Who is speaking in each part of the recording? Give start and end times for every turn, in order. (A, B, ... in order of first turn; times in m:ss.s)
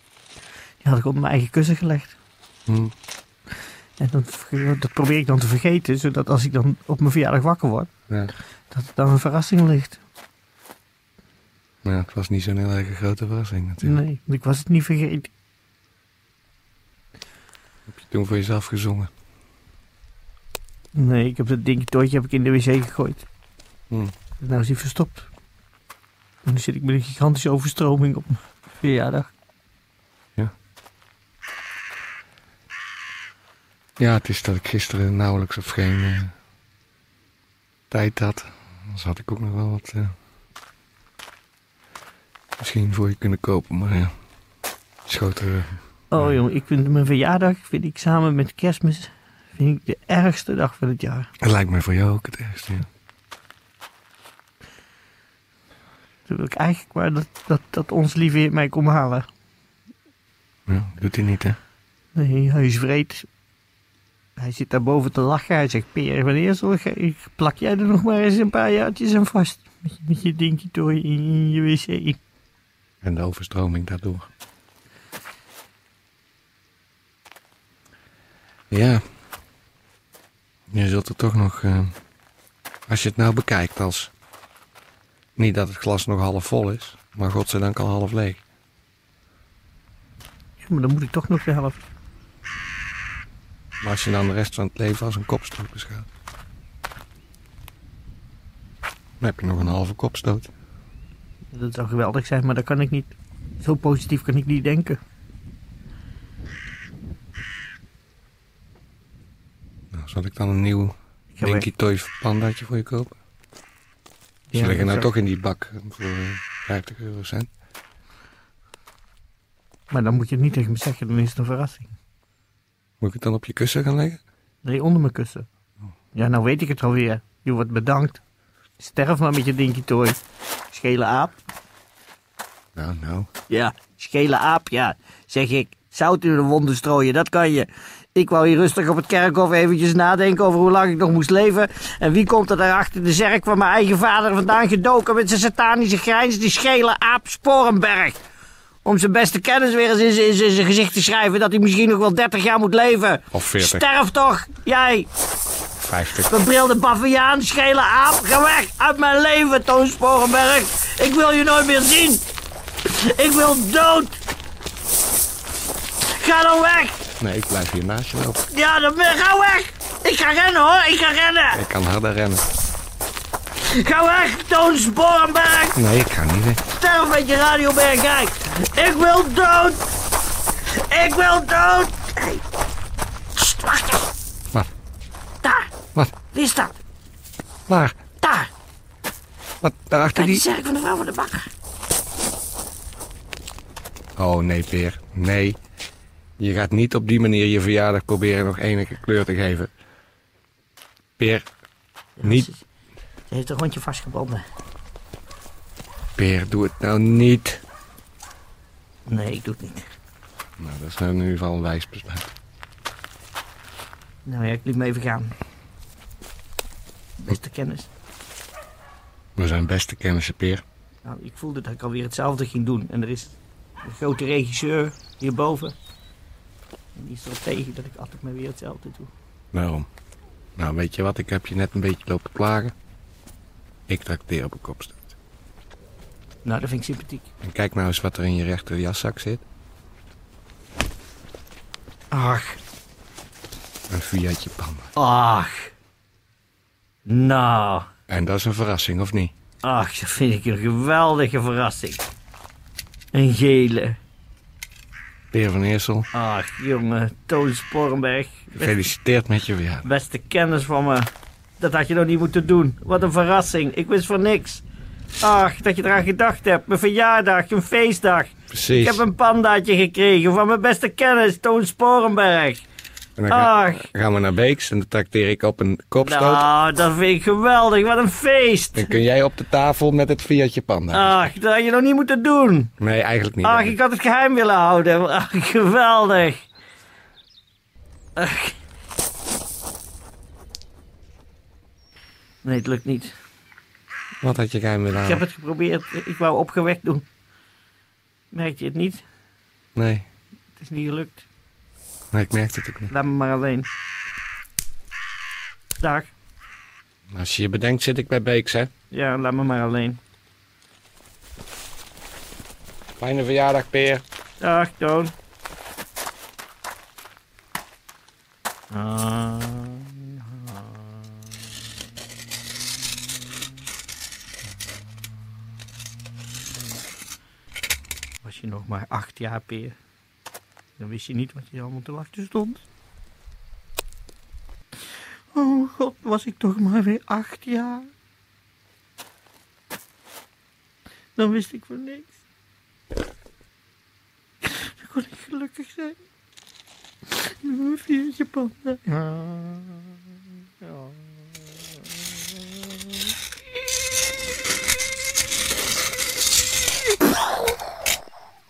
0:00.8-0:02.2 A
0:02.7-0:02.9 B
0:04.0-0:07.9 A
0:08.7-0:10.0 A
0:11.8-0:14.0 B
0:13.8-0:15.3 A
0:17.9-0:19.1 B
0:20.9-0:23.3 A
0:24.4-0:25.3 A
0:26.4-0:29.3 A
0:34.0-0:36.3 B
0:37.9-0:40.1 B
0:42.6-0:44.1 B
0:45.1-0:46.4 B
0:46.1-0:51.3 A
0:51.4-0:52.9 B
0:56.3-0:59.3 A
1:00.7-1:01.6 B
1:02.2-1:03.3 A
1:04.4-1:12.2 A
1:13.0-1:14.3 B
1:18.7-1:19.0 B
1:20.7-1:21.9 B
1:22.9-1:24.1 B
1:25.4-1:28.4 B
1:30.6-1:31.8 A
1:33.8-1:36.1 B
1:39.2-1:40.5 B
1:41.5-1:45.0 A
1:49.9-1:53.1 B
1:51.4-1:51.7 A
1:54.5-1:55.1 A
1:54.6-1:57.5 B
1:59.9-2:01.9 A
2:03.0-2:04.2 B
2:04.6-2:05.5 A
2:06.1-2:08.2 A
2:08.8-2:10.2 A
2:10.7-2:11.4 A
2:12.8-2:13.3 B
2:13.5-2:28.2 A
2:28.8-2:35.1 A
2:33.3-2:33.9 B
2:35.8-2:36.3 B
2:36.2-2:42.2 A
2:42.8-2:44.2 A
2:46.1-2:47.0 A
2:47.2-2:48.4 B
2:48.5-2:51.6 A
2:51.5-2:52.4 B
2:53.6-2:55.8 A
2:55.8-2:56.6 B
2:56.8-2:59.8 A
3:00.6-3:02.4 A
3:03.4-3:04.1 A
3:05.4-3:05.7 A
3:06.3-3:06.8 A
3:07.7-3:08.0 B
3:08.2-3:08.5 A
3:09.6-3:10.4 B
3:10.2-3:11.5 A
3:14.2-3:15.6 B
3:16.4-3:19.7 B
3:21.2-3:21.4 B
3:22.2-3:22.6 A
3:22.2-3:22.5 B
3:23.3-3:24.4 A
3:26.2-3:27.6 B
3:29.1-3:29.8 A
3:30.6-3:32.3 B
3:34.2-3:35.4 A
3:37.2-3:37.9 A
3:39.4-3:40.6 B
3:41.0-3:45.8 A
3:47.0-3:49.1 A
3:49.5-3:49.9 B
3:50.6-3:52.7 B
3:53.9-3:55.1 B
3:56.4-3:57.3 A
3:57.4-3:59.4 B
4:02.1-4:02.6 A
4:03.9-4:04.9 B
4:05.0-4:05.7 A
4:07.1-4:07.9 A
4:08.1-4:09.3 B
4:09.6-4:12.0 A
4:13.1-4:14.0 A
4:15.3-4:16.1 B
4:16.1-4:18.8 A
4:18.5-4:19.9 B
4:19.8-4:24.6 A
4:25.2-4:32.6 A
4:28.5-4:29.0 B
4:33.2-4:36.5 B
4:33.3-4:33.9 A
4:36.0-4:39.0 A
4:38.8-4:41.3 B
4:40.9-4:42.7 A
4:42.8-4:43.8 B
4:43.4-4:46.4 A
4:48.2-4:48.6 A
4:52.4-4:53.2 A
4:54.2-4:55.2 B
4:55.0-4:57.0 A
4:58.3-4:59.0 A
4:59.8-5:00.1 B
5:00.6-5:01.2 A
5:02.1-5:02.9 B
5:02.9-5:03.7 A
5:05.8-5:06.1 A
5:07.1-5:08.7 B
5:08.9-5:10.0 A
5:13.0-5:14.0 B
5:14.4-5:15.1 A
5:18.7-5:21.0 A
5:28.2-5:29.8 A
5:30.8-5:32.6 A
5:35.3-5:37.9 A
5:41.2-5:42.1 A
5:44.4-5:46.0 A
5:47.2-5:50.0 A
5:50.6-5:50.9 A